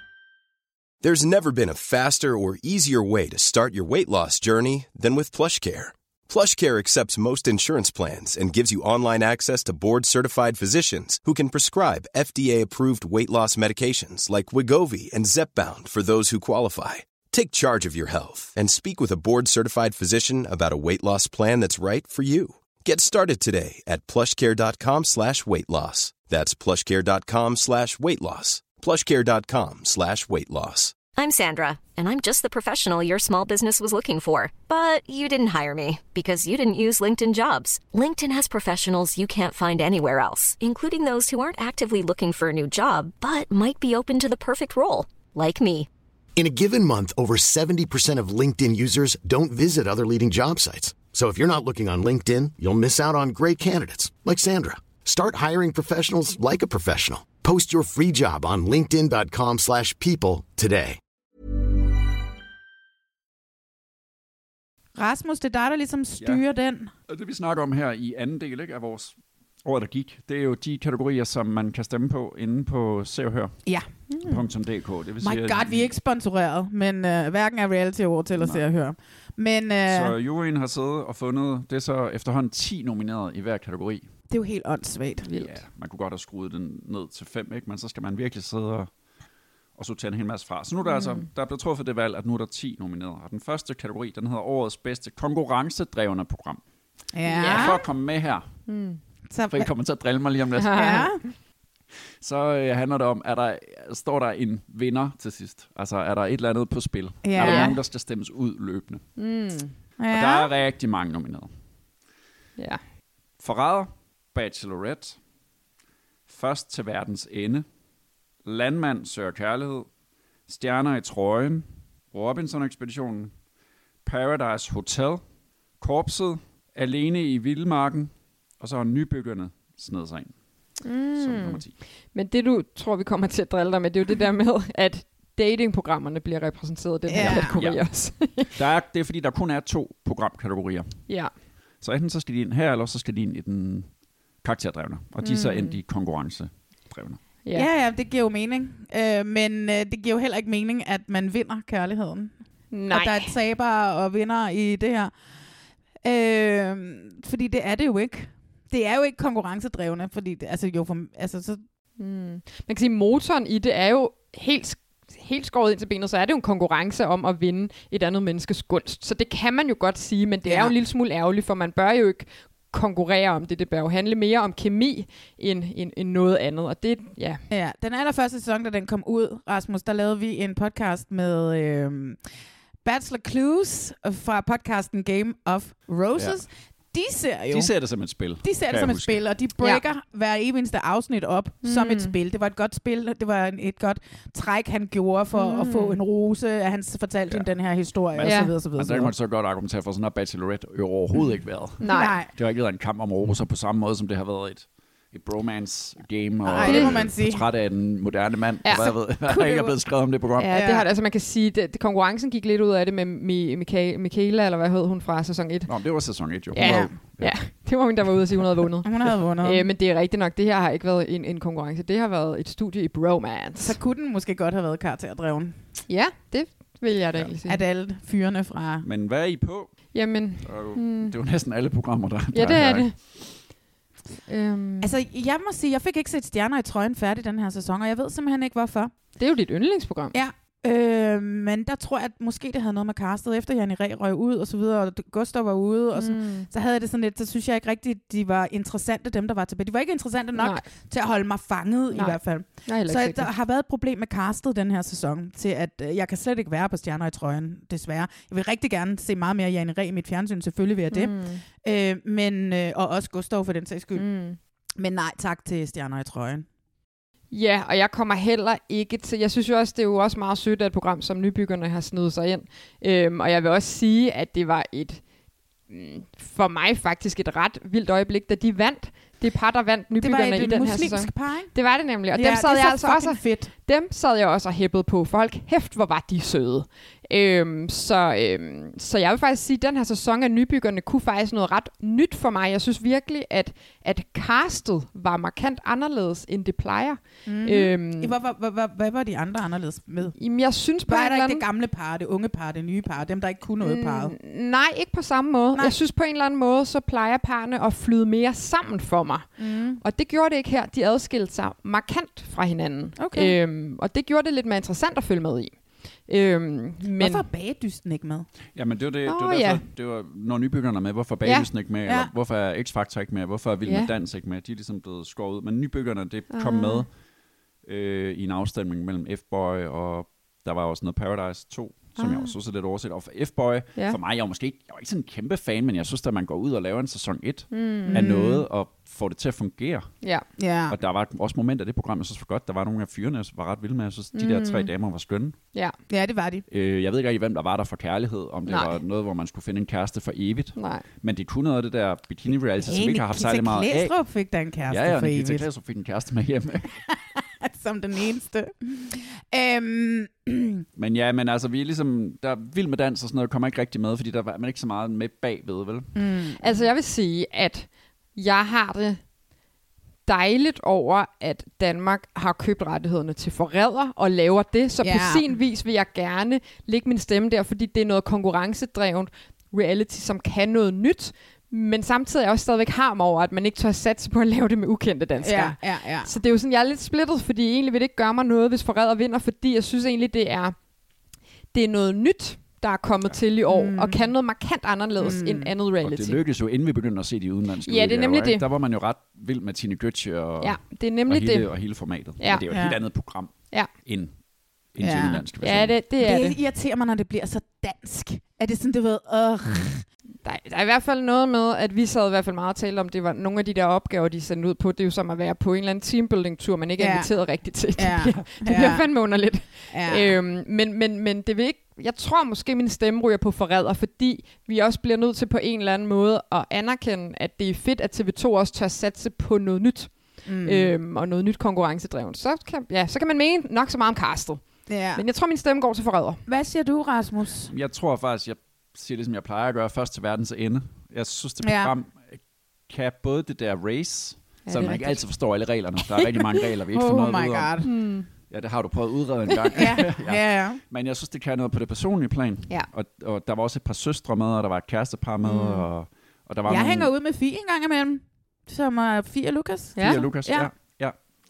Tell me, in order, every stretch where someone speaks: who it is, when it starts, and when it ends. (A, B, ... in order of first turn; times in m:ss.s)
0:01.0-0:31.0 A
0:31.0-0:45.9 B
0:46.4-1:01.0 C
1:05.0-1:06.9 D
1:07.1-1:13.6 E
1:14.1-1:14.4 F
1:14.2-1:15.9 E
1:15.2-1:20.2 D
1:18.4-1:18.6 E
1:19.9-1:24.1 E
1:24.3-1:25.3 D
1:25.2-1:25.5 F
1:25.3-1:28.9 E
1:29.8-1:36.6 E
1:30.8-1:31.3 F
1:37.1-1:37.8 D
1:37.2-1:37.8 F
1:37.4-1:38.5 E
1:38.7-1:39.0 F
1:39.3-1:39.7 D
1:39.5-1:40.9 E
1:40.6-1:41.3 F
1:40.7-1:41.2 D
1:42.2-1:49.0 E
1:47.2-1:47.8 D
1:47.4-1:47.7 F
1:49.2-1:49.7 F
1:50.0-1:50.5 D
1:50.1-1:51.5 E
1:53.4-1:55.2 E
1:56.3-1:57.6 E
1:58.4-1:59.9 E
2:00.5-2:03.3 E
2:04.0-2:05.2 E
2:05.8-2:10.3 E
2:10.8-2:11.6 F
2:11.2-2:11.7 E
2:12.1-2:18.5 F
2:17.1-2:17.6 D
2:17.2-2:21.0 E
2:21.8-2:23.9 E
2:24.4-2:27.2 E
2:25.2-2:25.8 F
2:27.5-2:32.3 D
2:32.7-2:33.3 F
2:32.9-2:35.1 D
2:36.0-2:41.6 D
2:42.0-2:57.4 F
2:50.4-2:50.7 D
2:57.5-3:02.2 D
3:02.8-3:07.7 D
3:06.2-3:06.4 E
3:07.5-3:09.2 E
3:08.4-3:19.1 D
3:11.6-3:12.1 F
3:15.3-3:16.0 F
3:18.1-3:30.6 E
3:18.2-3:18.5 F
3:21.8-3:22.1 F
3:21.8-3:22.3 D
3:26.4-3:27.4 D
3:26.6-3:26.9 F
3:28.6-3:28.9 F
3:29.3-3:29.7 D
3:30.4-3:35.7 F
3:30.5-3:30.9 D
3:35.7-3:37.4 E
3:36.5-3:43.8 F
3:36.6-3:36.9 D
3:38.8-3:39.7 D
3:43.6-3:45.6 D
3:45.9-3:47.6 F
3:47.4-3:48.8 D
3:48.8-3:49.8 E
3:49.9-3:51.1 F
3:50.4-3:52.9 E
3:52.3-3:52.9 F
3:54.3-3:54.9 F
3:54.8-3:58.9 D
3:59.2-4:00.1 F
4:00.1-4:24.0 D
4:06.0-4:06.5 F
4:10.4-4:10.6 F
4:11.9-4:13.3 F
4:20.9-4:21.4 F
4:24.0-4:24.4 F
4:24.8-4:26.4 D
4:27.3-4:35.0 F
4:35.7-4:58.1 F
4:40.0-4:41.5 D
4:42.1-4:43.5 D
4:57.2-5:00.2 D
5:00.2-5:01.4 F
5:00.8-5:04.1 D
5:03.6-5:09.2 F
5:09.4-5:09.8 D
5:09.8-5:15.6 F
5:13.0-5:13.4 D
5:16.1-5:17.2 F
5:16.9-5:18.3 D
5:18.5-5:26.9 E
5:19.0-5:19.6 F
5:21.8-5:22.1 D
5:23.6-5:23.9 F
5:26.3-5:26.8 F
5:27.6-5:39.9 E
5:32.0-5:32.3 F
5:37.5-5:38.1 F
5:37.9-5:38.4 D
5:40.4-5:40.8 D
5:40.7-5:45.4 E
5:44.1-5:44.7 F
5:45.9-5:46.4 D
5:46.5-5:53.9 E
5:48.5-5:48.8 F
5:50.6-5:50.8 F
5:52.6-5:55.5 D
5:54.7-5:56.8 E
5:56.9-6:00.6 D
6:00.8-6:05.9 E
6:05.9-6:06.5 D
6:06.4-6:09.0 F
6:10.1-6:30.6 F
6:14.8-6:15.3 D
6:25.2-6:26.1 D
6:31.5-6:36.2 F
6:33.5-6:34.1 D
6:35.0-6:35.5 D
6:35.8-6:44.1 E
6:37.6-6:38.4 F
6:40.4-6:41.5 F
6:42.2-6:42.5 F
6:42.5-6:42.8 D
6:44.7-6:45.8 E
6:44.8-6:45.2 D
6:45.4-6:46.4 F
6:46.0-6:49.8 D
6:50.2-7:14.4 F
6:56.8-6:57.1 D
6:57.8-6:58.8 D
6:59.7-7:00.2 D
7:10.2-7:10.7 D
7:14.7-7:15.0 D
7:14.9-7:16.2 F
7:16.3-7:17.5 D
7:17.5-7:27.6 E
7:21.4-7:21.7 D
7:24.4-7:25.0 F
7:26.7-7:27.7 D
7:27.6-7:28.1 F
7:28.3-7:36.9 E
7:29.5-7:30.6 D
7:35.2-7:35.6 F
7:36.5-7:40.5 D
7:39.8-7:40.0 F
7:39.8-7:41.0 E